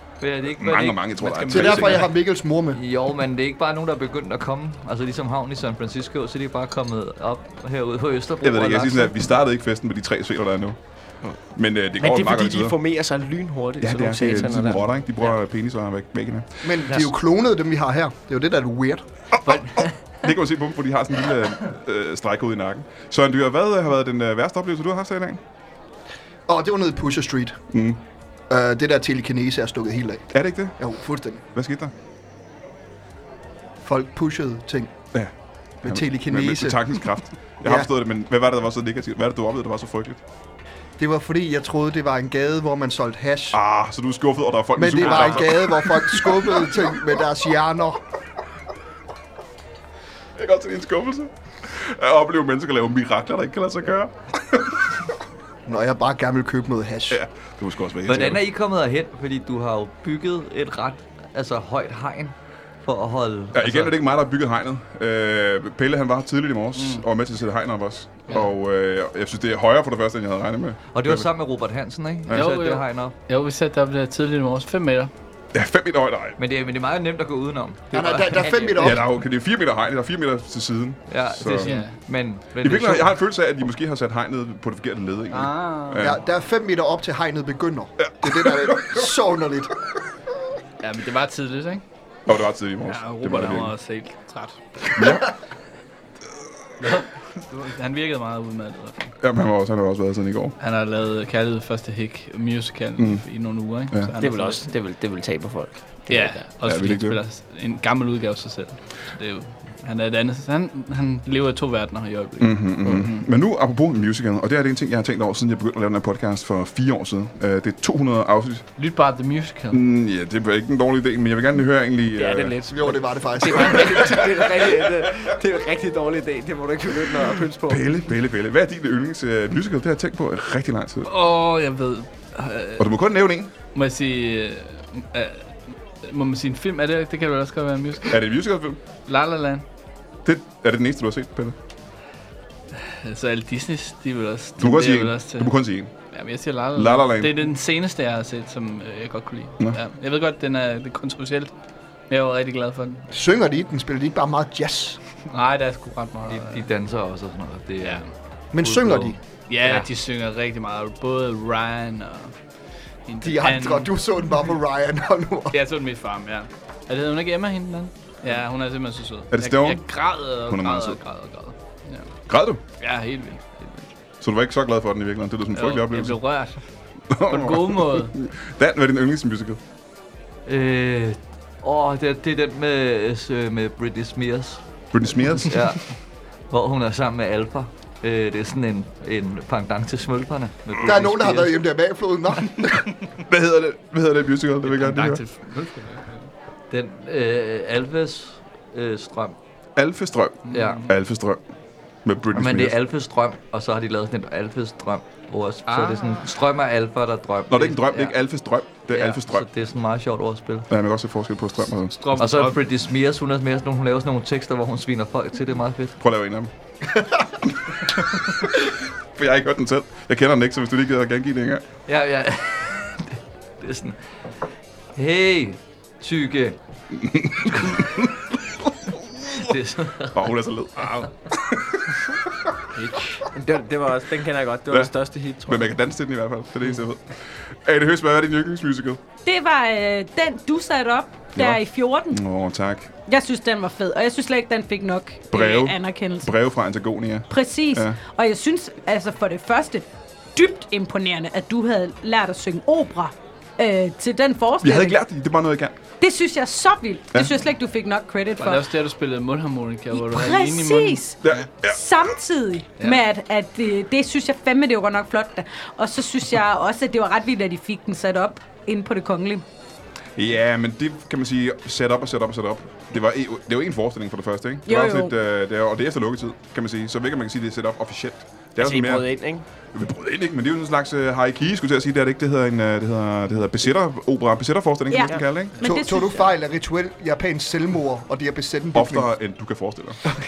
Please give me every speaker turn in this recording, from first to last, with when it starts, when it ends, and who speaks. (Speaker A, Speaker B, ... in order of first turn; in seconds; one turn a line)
Speaker A: 0.2-2.1
Speaker B: 0.5-2.0
Speaker C: 1.5-2.8
Speaker A: 2.7-9.3
Speaker B: 8.4-10.8
Speaker B: 11.5-12.8
Speaker D: 12.0-15.3
Speaker B: 13.8-16.7
Speaker C: 16.6-19.0
Speaker A: 19.5-19.9
Speaker B: 20.2-25.4
Speaker C: 26.5-27.6
Speaker B: 27.7-28.0
Speaker C: 28.5-31.4
Speaker B: 30.3-30.8
Speaker B: 31.5-31.9
Speaker C: 33.8-34.9
Speaker C: 35.8-36.8
Speaker B: 35.8-40.2
Speaker C: 37.6-37.9
Speaker C: 41.0-43.6
Speaker B: 43.5-46.7
Speaker C: 44.8-48.0
Speaker B: 50.4-54.7
Speaker C: 55.6-57.2
Speaker B: 57.1-58.4
Speaker A: 58.1-63.9
Speaker B: 63.5-71.3
Speaker E: 66.7-67.0
Speaker A: 70.9-73.1
Speaker E: 72.3-75.1
Speaker B: 75.5-76.4
Speaker A: 76.4-78.7
Speaker C: 77.9-79.0
Speaker B: 78.8-81.7
Speaker A: 81.1-83.1
Speaker E: 81.6-82.0
Speaker B: 82.6-86.2
Speaker E: 85.3-86.1
Speaker C: 86.0-89.7
Speaker B: 88.0-89.0
Speaker E: 90.8-91.8
Speaker B: 92.3-93.7
Speaker E: 92.8-95.2
Speaker B: 94.9-95.3
Speaker E: 96.8-99.1
Speaker B: 99.2-100.5
Speaker E: 100.6-104.7
Speaker B: 103.0-103.2
Speaker B: 103.9-104.1
Speaker D: 104.2-106.5
Speaker E: 106.1-113.2
Speaker B: 106.6-107.2
Speaker B: 112.4-118.7
Speaker E: 118.8-119.8
Speaker B: 119.7-122.5
Speaker D: 122.1-127.8
Speaker C: 122.6-124.4
Speaker B: 127.7-131.1
Speaker E: 131.1-132.9
Speaker B: 132.8-133.5
Speaker E: 133.7-135.5
Speaker E: 136.0-138.2
Speaker B: 138.1-138.8
Speaker E: 139.1-139.6
Speaker B: 140.2-141.6
Speaker E: 142.8-145.5
Speaker B: 144.6-145.9
Speaker E: 146.1-151.5
Speaker B: 146.7-147.4
Speaker E: 152.1-153.1
Speaker C: 153.1-155.0
Speaker E: 155.3-156.7
Speaker A: 156.3-159.9
Speaker E: 157.8-158.1
Speaker C: 158.5-159.2
Speaker E: 159.5-162.4
Speaker E: 163.1-163.9
Speaker C: 163.2-165.6
Speaker E: 165.5-172.1
Speaker B: 169.3-171.0
Speaker B: 172.3-172.6
Speaker E: 172.7-173.9
Speaker B: 174.2-176.2
Speaker E: 175.5-176.6
Speaker B: 177.1-179.6
Speaker E: 177.3-178.1
Speaker A: 180.4-184.6
Speaker B: 184.9-185.6
Speaker A: 185.3-191.7
Speaker C: 190.8-192.9
Speaker B: 193.3-195.2
Speaker E: 194.6-196.3
Speaker A: 196.7-199.3
Speaker B: 199.8-201.4
Speaker E: 200.5-200.9
Speaker A: 200.5-200.9
Speaker B: 202.0-202.7
Speaker A: 202.3-208.1
Speaker E: 205.7-206.2
Speaker B: 207.5-209.4
Speaker A: 208.9-210.7
Speaker B: 210.7-212.2
Speaker E: 212.0-212.6
Speaker A: 212.2-216.0
Speaker B: 216.0-216.5
Speaker B: 219.2-221.6
Speaker A: 221.9-223.9
Speaker A: 224.9-226.6
Speaker B: 226.9-228.2
Speaker B: 229.0-229.6
Speaker A: 229.3-230.2
Speaker B: 230.1-231.8
Speaker E: 230.8-231.1
Speaker E: 232.8-233.2
Speaker D: 233.3-235.7
Speaker B: 235.4-239.0
Speaker F: 239.2-242.2
Speaker B: 241.3-242.9
Speaker F: 243.1-246.3
Speaker B: 245.3-248.0
Speaker F: 247.3-255.0
Speaker B: 254.6-255.8
Speaker F: 256.0-258.7
Speaker E: 258.4-261.5
Speaker F: 259.9-269.4
Speaker B: 261.2-261.8
Speaker B: 270.1-279.2
Speaker F: 274.6-275.1
Speaker D: 278.6-279.4
Speaker B: 279.7-285.6
Speaker F: 284.9-286.3
Speaker E: 285.6-285.8
Speaker C: 285.6-289.1
Speaker B: 288.7-290.0